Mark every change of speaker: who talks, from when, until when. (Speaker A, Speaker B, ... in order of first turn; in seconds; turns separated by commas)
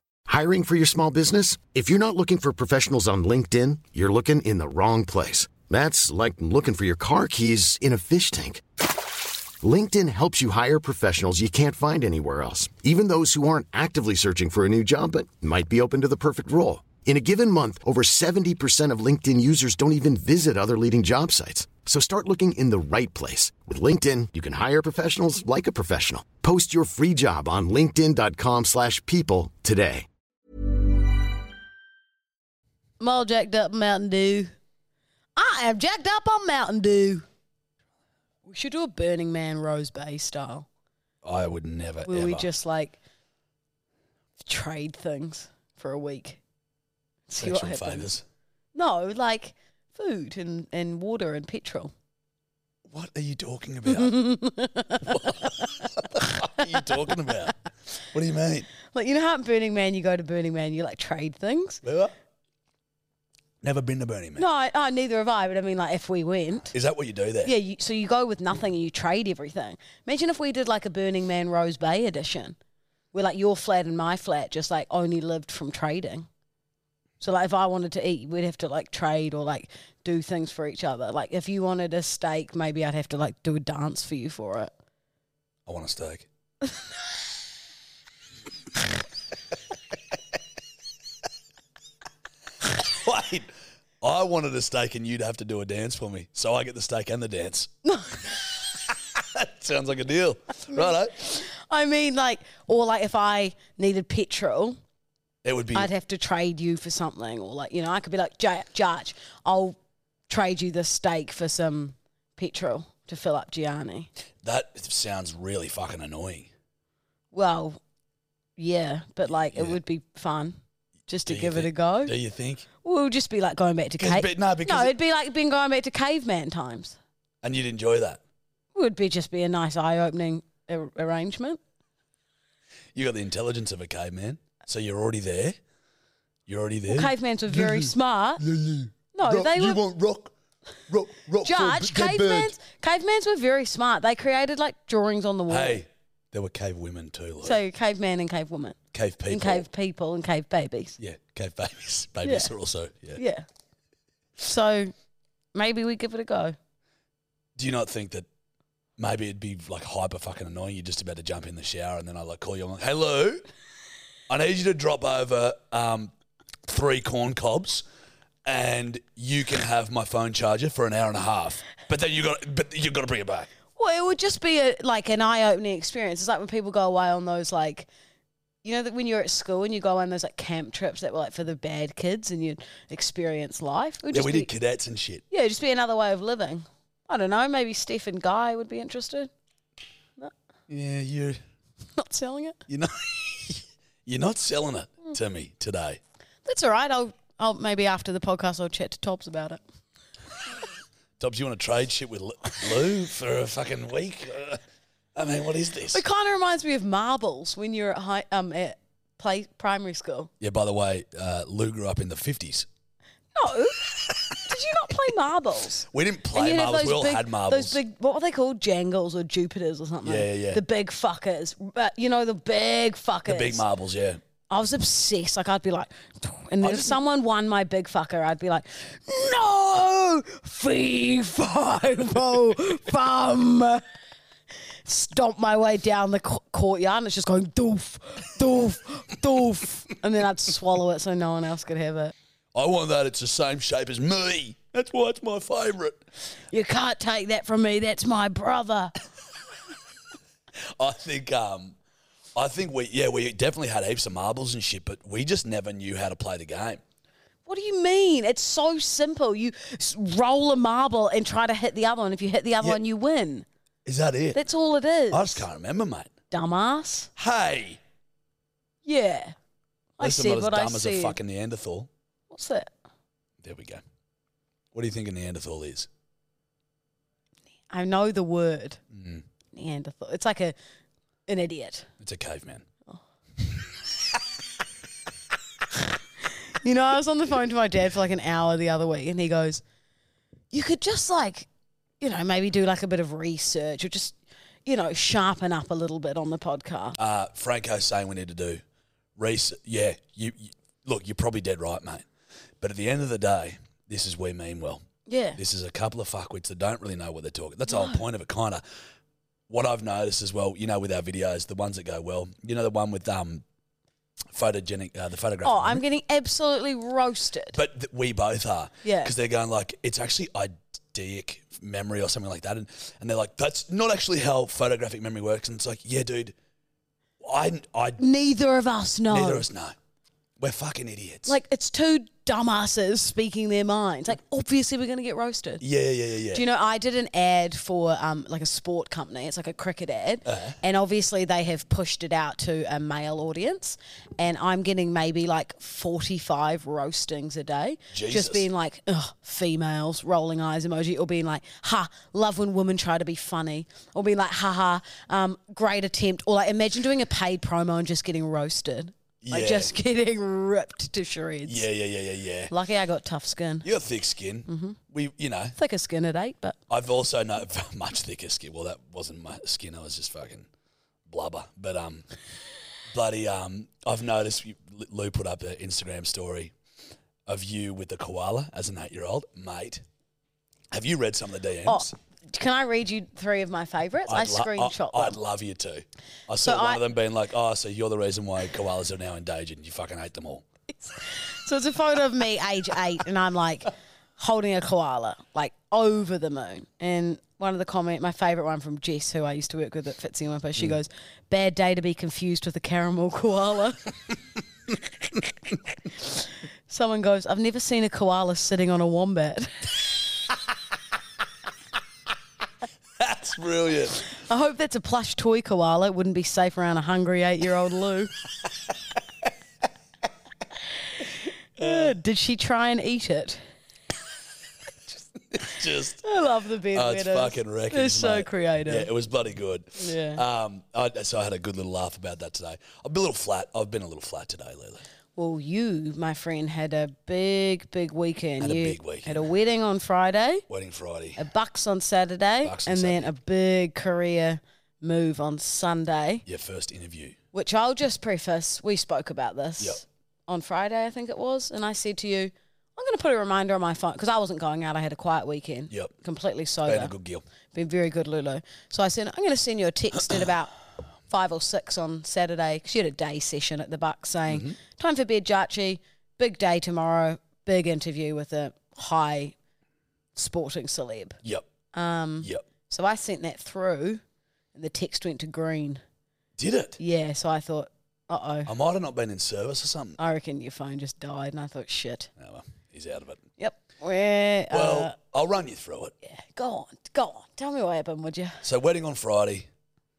Speaker A: 0.3-8.6, Speaker A: 9.6-30.1, Speaker B: 33.0-34.5, Speaker B: 35.4-37.2, Speaker B: 38.4-40.7, Speaker C: 41.2-42.5, Speaker B: 42.0-43.0, Speaker B: 44.4-46.4, Speaker B: 47.3-48.1, Speaker C: 47.4-48.2, Speaker B: 48.7-51.9, Speaker C: 52.9-54.2, Speaker B: 53.9-55.7, Speaker C: 55.0-58.7, Speaker B: 58.9-61.8, Speaker C: 61.8-62.1, Speaker C: 63.6-64.5, Speaker B: 64.4-66.7, Speaker C: 66.7-67.5, Speaker B: 67.4-72.5, Speaker B: 73.1-76.3, Speaker B: 77.2-84.7, Speaker C: 85.7-86.3, Speaker C: 92.7-97.7, Speaker B: 97.8-98.1, Speaker C: 99.1-101.2, Speaker B: 100.7-104.8, Speaker C: 105.4-105.9, Speaker B: 105.7-109.8, Speaker B: 110.3-114.1, Speaker C: 114.4-116.5, Speaker B: 117.3-117.8, Speaker B: 118.6-122.1, Speaker C: 121.2-122.7, Speaker B: 122.8-127.0, Speaker C: 124.0-124.9, Speaker C: 127.4-128.2, Speaker B: 128.7-131.6, Speaker C: 132.9-135.6, Speaker C: 136.5-140.3, Speaker B: 136.9-138.4, Speaker B: 139.1-139.8, Speaker C: 140.9-142.5, Speaker B: 141.4-145.8, Speaker C: 145.5-147.6, Speaker B: 147.4-148.8, Speaker C: 148.9-149.7, Speaker B: 149.3-151.0, Speaker C: 151.0-153.2, Speaker B: 152.2-152.5, Speaker B: 153.2-153.4, Speaker B: 154.4-154.9, Speaker B: 155.5-156.6, Speaker C: 157.6-158.3, Speaker C: 159.0-163.5, Speaker C: 164.3-166.1, Speaker C: 166.7-167.8, Speaker C: 168.4-173.5, Speaker B: 173.8-177.9, Speaker B: 178.6-184.5, Speaker C: 184.1-185.2, Speaker B: 185.3-189.3, Speaker C: 190.7-191.4, Speaker B: 192.0-192.6, Speaker C: 192.7-196.0, Speaker B: 196.4-199.6, Speaker C: 201.2-204.6, Speaker C: 205.1-206.0, Speaker B: 205.9-210.3, Speaker C: 210.4-212.7, Speaker B: 213.3-223.6, Speaker C: 215.9-217.8, Speaker C: 220.0-220.6, Speaker C: 223.2-224.2, Speaker B: 224.5-233.8, Speaker C: 226.6-227.0, Speaker B: 234.8-242.1, Speaker C: 242.5-246.0, Speaker B: 246.5-248.9, Speaker C: 250.6-251.8, Speaker C: 252.3-256.8, Speaker B: 257.5-263.4, Speaker C: 263.8-264.4, Speaker B: 264.3-265.4, Speaker C: 265.1-266.1, Speaker B: 266.3-267.1, Speaker C: 267.1-267.8, Speaker B: 268.8-269.3, Speaker B: 270.0-271.2, Speaker C: 270.0-271.9, Speaker B: 272.3-272.7, Speaker C: 273.4-273.8, Speaker C: 274.7-275.9, Speaker B: 277.7-278.8, Speaker C: 278.9-279.2, Speaker B: 279.5-280.5, Speaker B: 281.3-281.9, Speaker C: 282.0-282.6, Speaker B: 286.6-289.6, Speaker B: 290.5-291.5, Speaker B: 292.0-297.0, Speaker C: 297.0-298.6, Speaker C: 299.1-302.1, Speaker C: 302.6-304.8, Speaker B: 305.1-305.4, Speaker C: 305.4-308.6, Speaker B: 307.7-308.0, Speaker C: 309.5-313.4, Speaker C: 314.3-315.8, Speaker B: 315.4-317.6, Speaker C: 317.5-326.3, Speaker B: 318.8-319.1, Speaker C: 327.2-328.0, Speaker B: 328.0-329.4, Speaker C: 329.1-329.8, Speaker C: 330.4-331.3, Speaker B: 331.2-335.6, Speaker C: 335.6-336.4, Speaker B: 336.3-361.7, Speaker C: 340.2-340.6, Speaker C: 347.9-348.5, Speaker C: 359.2-359.7, Speaker C: 361.4-362.5, Speaker B: 362.5-363.6, Speaker C: 363.6-365.6, Speaker B: 364.5-364.8, Speaker B: 365.6-366.6, Speaker C: 366.7-370.5, Speaker C: 371.1-372.1, Speaker C: 372.9-376.5, Speaker C: 377.2-379.8, Speaker C: 380.7-381.9, Speaker B: 381.6-385.2, Speaker C: 384.1-390.4, Speaker B: 386.4-386.8, Speaker B: 390.8-403.8, Speaker B: 406.7-409.5, Speaker C: 413.0-414.1, Speaker B: 414.2-418.1, Speaker C: 421.6-421.9, Speaker B: 421.6-423.4, Speaker C: 425.3-426.0, Speaker B: 426.0-428.9, Speaker C: 426.7-434.8, Speaker B: 429.8-430.2, Speaker B: 435.1-440.4, Speaker C: 438.4-439.3, Speaker C: 440.5-441.2, Speaker B: 441.2-446.2, Speaker C: 442.4-443.1, Speaker C: 446.2-447.2, Speaker B: 447.3-456.9, Speaker C: 456.6-457.2, Speaker B: 457.5-460.5, Speaker B: 461.1-469.3, Speaker C: 464.3-464.6, Speaker B: 470.1-471.2, Speaker C: 471.2-471.5, Speaker B: 471.7-474.0, Speaker B: 474.5-475.8, Speaker C: 476.4-476.8, Speaker B: 476.8-478.5, Speaker C: 478.4-480.0, Speaker B: 480.0-482.1, Speaker C: 482.2-483.2, Speaker B: 483.4-484.9, Speaker C: 484.5-485.9, Speaker B: 486.0-488.4, Speaker C: 488.4-489.5